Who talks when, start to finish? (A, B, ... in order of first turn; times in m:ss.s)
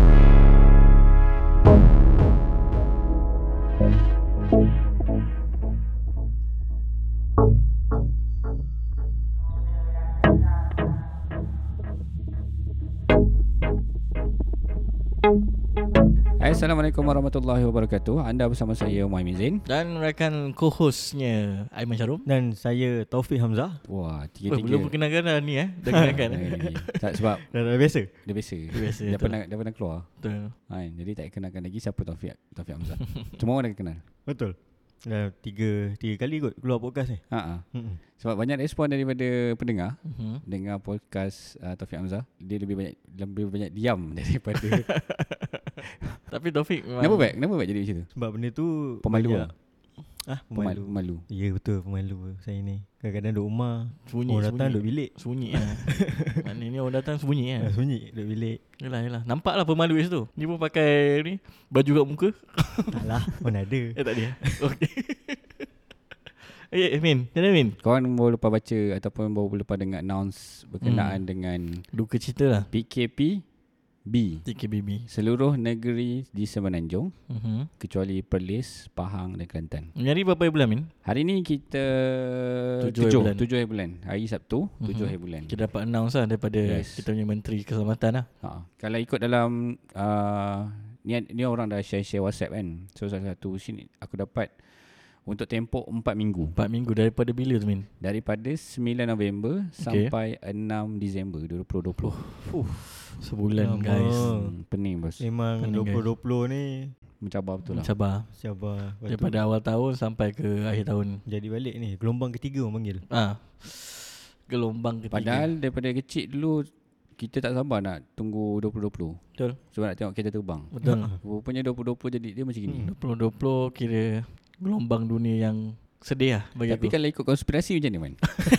0:16.4-0:19.6 A
0:19.7-0:22.2 B
0:22.2-0:23.8 C
0:23.9-0:24.9 A
0:24.5-0:26.8 B
0:25.9-0:26.9 C
0:26.1-0:27.4 A
0:27.5-0:28.1 C
0:28.2-0:30.1 A
0:28.7-0:29.4 B
0:30.2-0:30.5 B
0:30.7-0:34.0 A
0:34.2-0:38.0 C
0:37.3-0:37.6 A
0:38.2-0:44.9 A
0:40.1-0:40.4 B
0:44.5-0:45.8 B
0:45.8-0:46.2 A
0:46.3-0:47.3 B
0:47.0-0:48.1 A
0:48.2-0:49.5 C
0:49.0-0:49.5 A
0:50.2-0:56.4 C
0:50.5-0:51.2 A
0:54.1-0:57.7 B
0:57.6-0:58.6 C
0:58.8-1:03.3 B
1:02.9-1:04.6 C
1:03.9-1:05.7 B
1:06.4-1:07.8 B
1:07.8-1:11.8 A
1:10.8-1:11.2 B
1:11.9-1:12.7 B
1:12.7-1:13.4 A
1:14.0-1:14.4 A
1:14.4-1:15.0 B
1:15.1-1:17.1 A
1:17.3-1:17.7 B
1:17.8-1:19.9 A
1:20.0-1:20.9 B
1:21.0-1:25.6 A
1:22.8-1:23.4 B
1:24.8-1:28.3 B
1:26.6-1:27.0 A
1:28.4-1:36.6 A
1:36.6-1:37.9 B
1:38.0-1:42.2 A
1:39.8-1:40.1 B
1:42.0-1:42.5 B
1:42.4-1:42.9 C
1:43.0-1:44.3 B
1:43.6-1:44.5 C
1:44.2-1:45.2 A
1:45.2-1:46.9 C
1:45.6-1:46.0 B
1:47.2-1:47.9 A
1:47.7-1:48.4 B
1:48.3-1:49.4 C
1:49.0-1:51.2 B
1:51.3-1:53.0 C
1:53.1-1:55.5 B
1:55.1-2:02.9 A
2:00.7-2:01.1 B
2:00.8-2:01.2 C
2:02.9-2:06.9 B
2:06.7-2:08.2 A